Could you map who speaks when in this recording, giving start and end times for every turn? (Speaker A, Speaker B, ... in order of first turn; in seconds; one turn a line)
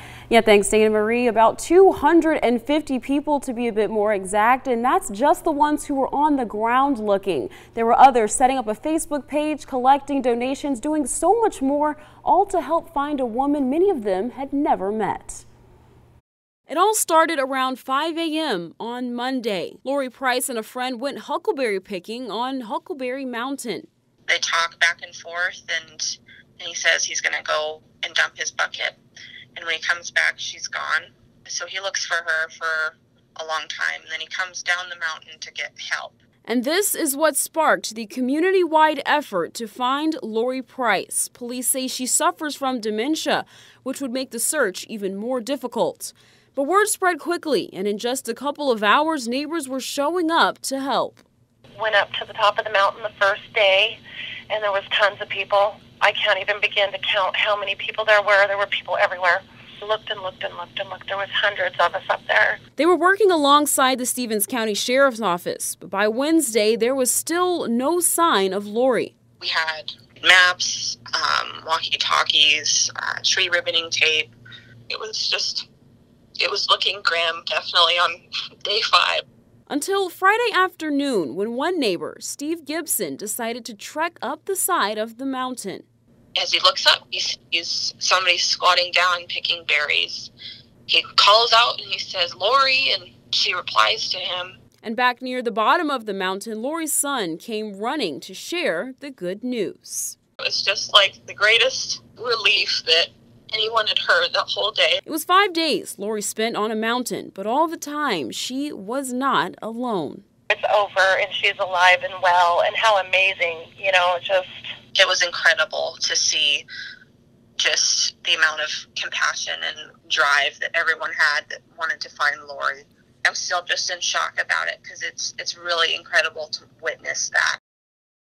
Speaker A: 0.3-15.4
Speaker A: 16.7-23.9
Speaker B: 24.3-29.0
Speaker B: 29.5-36.2
Speaker A: 36.4-51.2
Speaker C: 51.8-62.6
Speaker A: 62.8-69.1
Speaker B: 69.4-74.3
Speaker B: 74.9-75.7
Speaker B: 76.4-79.2
Speaker A: 79.7-85.8
Speaker B: 86.3-90.3
Speaker B: 90.9-94.6
Speaker A: 94.8-100.2
Speaker B: 100.4-105.0
Speaker A: 105.0-110.2
Speaker C: 110.5-114.6
Speaker B: 114.9-116.7
Speaker B: 117.6-127.6